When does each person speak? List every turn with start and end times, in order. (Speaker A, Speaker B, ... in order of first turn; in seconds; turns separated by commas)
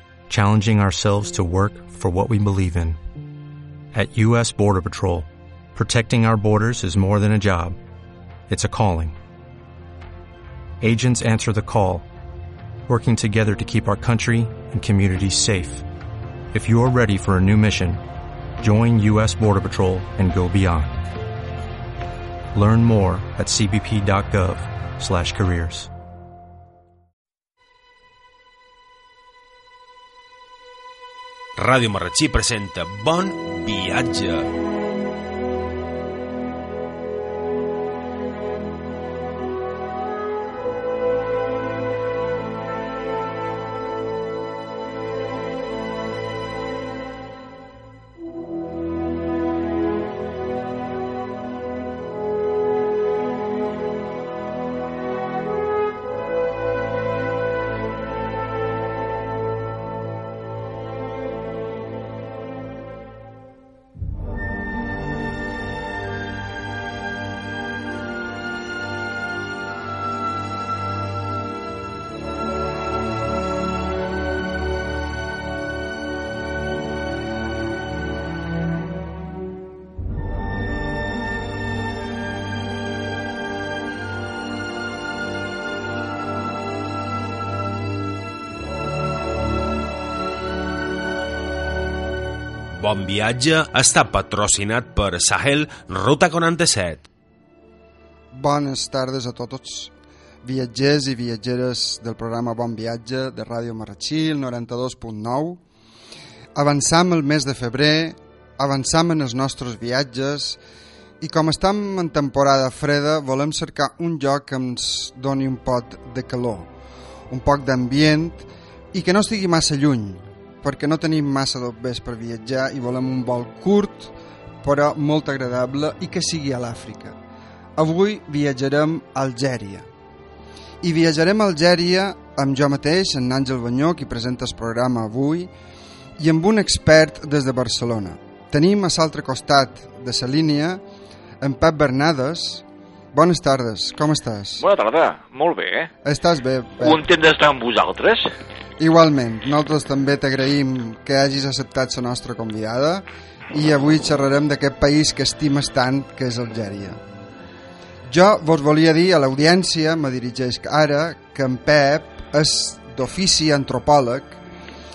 Speaker A: 0.3-3.0, Speaker A: 3.9-7.8, Speaker A: 8.5-9.2, Speaker A: 10.8-12.1, Speaker A: 12.9-15.8, Speaker A: 16.5-18.0, Speaker A: 18.6-21.1, Speaker A: 22.5-25.9, Speaker B: 31.6-34.5, Speaker B: 92.8-97.1, Speaker C: 98.3-105.6, Speaker C: 106.5-110.6, Speaker C: 111.2-116.7, Speaker C: 117.3-127.2, Speaker C: 127.8-129.9, Speaker C: 130.8-135.5, Speaker C: 136.2-140.8, Speaker C: 141.4-144.7, Speaker D: 144.6-145.9, Speaker C: 146.0-147.0, Speaker D: 146.8-148.3, Speaker C: 148.8-157.0, Speaker C: 158.1-164.4